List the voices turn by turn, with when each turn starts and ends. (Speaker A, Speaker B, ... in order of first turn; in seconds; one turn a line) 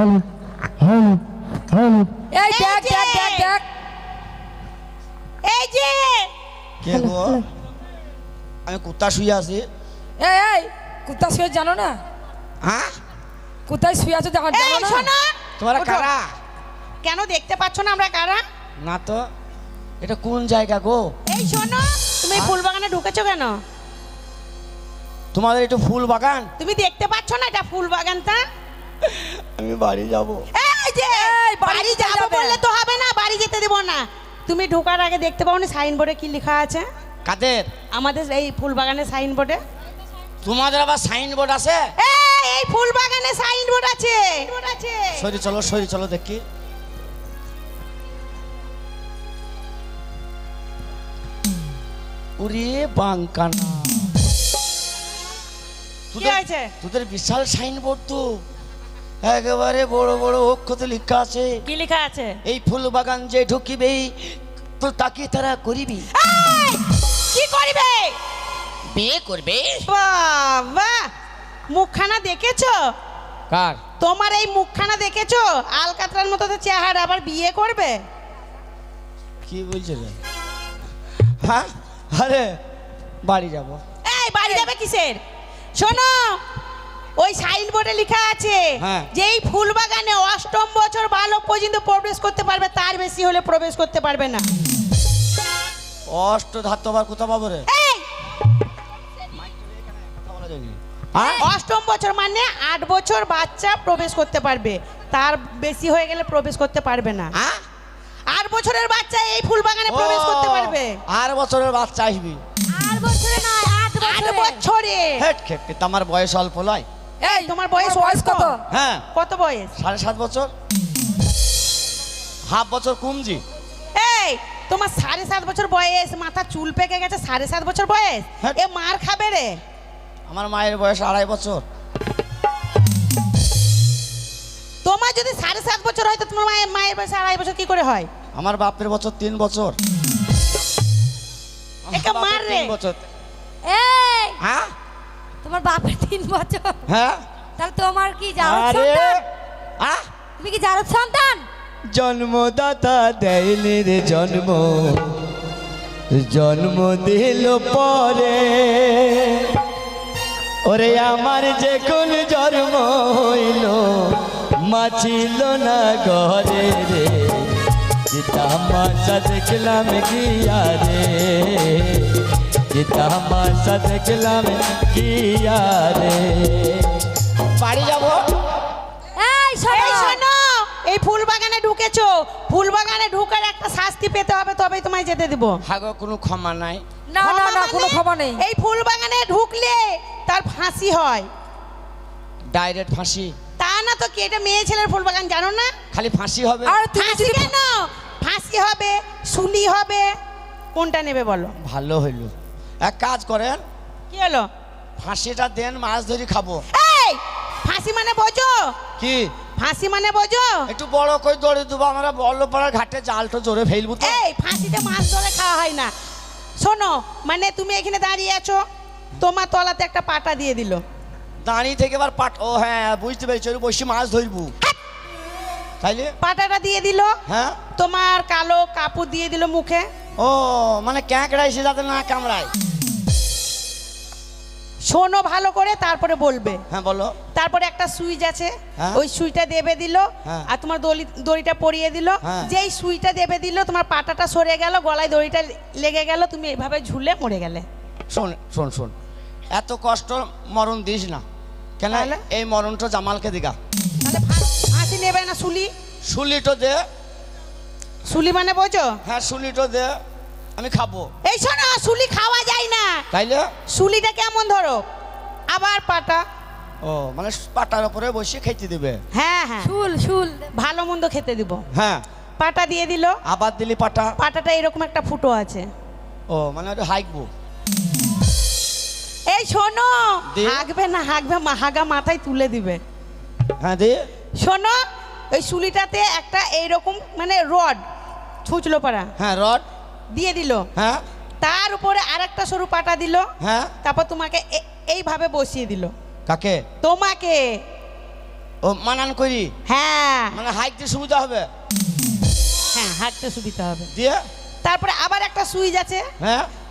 Speaker A: 2.3-3.6
Speaker B: 2.5-3.5
Speaker B: 5.4-6.3
Speaker C: 6.8-7.4
Speaker C: 8.7-9.7
Speaker A: 10.2-12.0
Speaker C: 12.6-13.0
Speaker A: 13.7-15.1
Speaker B: 14.5-16.1
Speaker C: 15.6-16.3
Speaker B: 17.0-18.4
Speaker C: 18.8-19.3
Speaker C: 20.0-21.1
Speaker B: 21.3-23.6
Speaker C: 25.3-26.5
Speaker B: 26.6-28.4
Speaker C: 29.0-30.5
Speaker B: 30.5-36.9
Speaker A: 31.1-32.6
Speaker C: 37.2-37.7
Speaker B: 37.9-39.6
Speaker C: 40.4-41.9
Speaker B: 42.0-45.2
Speaker C: 45.2-46.4
Speaker C: 52.4-54.1
Speaker C: 56.1-58.4
Speaker B: 56.2-56.7
Speaker C: 59.2-61.6
Speaker B: 61.6-62.4
Speaker C: 62.4-66.1
Speaker B: 66.1-68.2
Speaker C: 68.9-69.8
Speaker B: 69.8-71.1
Speaker B: 71.7-72.9
Speaker C: 73.5-73.8
Speaker B: 74.0-78.0
Speaker C: 79.4-80.2
Speaker C: 81.4-82.6
Speaker C: 83.2-83.8
Speaker B: 84.0-85.2
Speaker B: 85.8-86.4
Speaker B: 87.2-94.5
Speaker C: 88.8-89.1
Speaker C: 96.1-97.7
Speaker B: 97.7-98.0
Speaker C: 99.3-101.5
Speaker B: 101.4-107.3
Speaker C: 107.3-107.6
Speaker B: 108.3-111.0
Speaker C: 109.9-112.4
Speaker D: 112.7-114.6
Speaker B: 114.0-115.2
Speaker C: 115.2-116.9
Speaker A: 117.2-118.6
Speaker B: 117.2-118.6
Speaker C: 118.7-119.0
Speaker B: 119.1-119.7
Speaker C: 119.8-120.5
Speaker C: 122.5-123.4
Speaker B: 123.9-129.6
Speaker C: 130.3-131.6
Speaker B: 134.8-138.1
Speaker C: 138.3-139.8
Speaker C: 141.8-143.0
Speaker B: 141.9-142.7
Speaker D: 143.6-144.4
Speaker C: 144.4-144.7
Speaker D: 145.4-146.9
Speaker C: 146.9-147.2
Speaker D: 147.6-149.2
Speaker C: 148.4-149.2
Speaker C: 149.8-150.1
Speaker D: 150.4-151.4
Speaker C: 151.9-155.2
Speaker C: 156.1-159.6
Speaker C: 160.7-177.0
Speaker C: 177.6-178.3
Speaker D: 179.2-180.2
Speaker B: 179.7-185.6
Speaker C: 185.6-186.8
Speaker A: 187.1-188.4
Speaker B: 187.2-191.3
Speaker C: 192.5-193.3
Speaker B: 193.6-195.7
Speaker C: 195.9-196.8
Speaker A: 196.6-197.5
Speaker B: 196.9-200.1
Speaker B: 200.7-201.5
Speaker C: 201.6-202.3
Speaker C: 202.8-203.6
Speaker B: 204.1-204.5
Speaker C: 205.0-206.6
Speaker B: 206.7-208.7
Speaker C: 209.0-209.3
Speaker B: 209.6-210.7
Speaker C: 210.7-214.2
Speaker B: 214.0-215.9
Speaker B: 216.6-218.6
Speaker B: 219.2-220.8
Speaker C: 221.4-224.5
Speaker C: 225.8-226.1
Speaker B: 226.2-227.1
Speaker C: 227.3-227.6
Speaker B: 227.8-229.9
Speaker C: 230.2-232.5
Speaker B: 234.8-236.6
Speaker C: 236.7-237.2
Speaker B: 237.3-247.7
Speaker C: 242.2-242.5
Speaker C: 248.1-248.9
Speaker C: 249.5-251.2
Speaker C: 251.8-253.6
Speaker B: 251.9-252.2
Speaker B: 254.0-255.7
Speaker C: 256.0-256.9
Speaker B: 258.1-259.0
Speaker C: 259.0-260.0
Speaker C: 260.6-261.1
Speaker B: 261.2-263.1
Speaker C: 263.1-263.5
Speaker B: 263.7-264.8
Speaker B: 265.5-266.2
Speaker C: 266.8-269.0
Speaker B: 269.1-269.7
Speaker D: 269.8-270.4
Speaker A: 269.9-270.4
Speaker B: 270.5-271.6
Speaker C: 271.7-272.0
Speaker B: 272.4-273.2
Speaker C: 273.2-274.1
Speaker B: 274.2-275.7
Speaker C: 276.3-277.3
Speaker B: 279.3-282.8
Speaker C: 280.3-280.6
Speaker C: 283.6-284.1
Speaker B: 284.4-287.8
Speaker B: 288.4-289.1
Speaker C: 289.2-289.6
Speaker B: 290.1-290.6
Speaker C: 290.7-291.0
Speaker B: 291.4-293.3
Speaker C: 293.4-293.7
Speaker B: 293.8-295.9
Speaker C: 296.3-296.6
Speaker B: 296.8-297.6
Speaker C: 298.6-299.5
Speaker B: 299.7-300.3
Speaker C: 300.3-301.5
Speaker B: 302.7-303.9
Speaker C: 303.9-304.3
Speaker B: 304.6-306.1
Speaker C: 306.2-306.5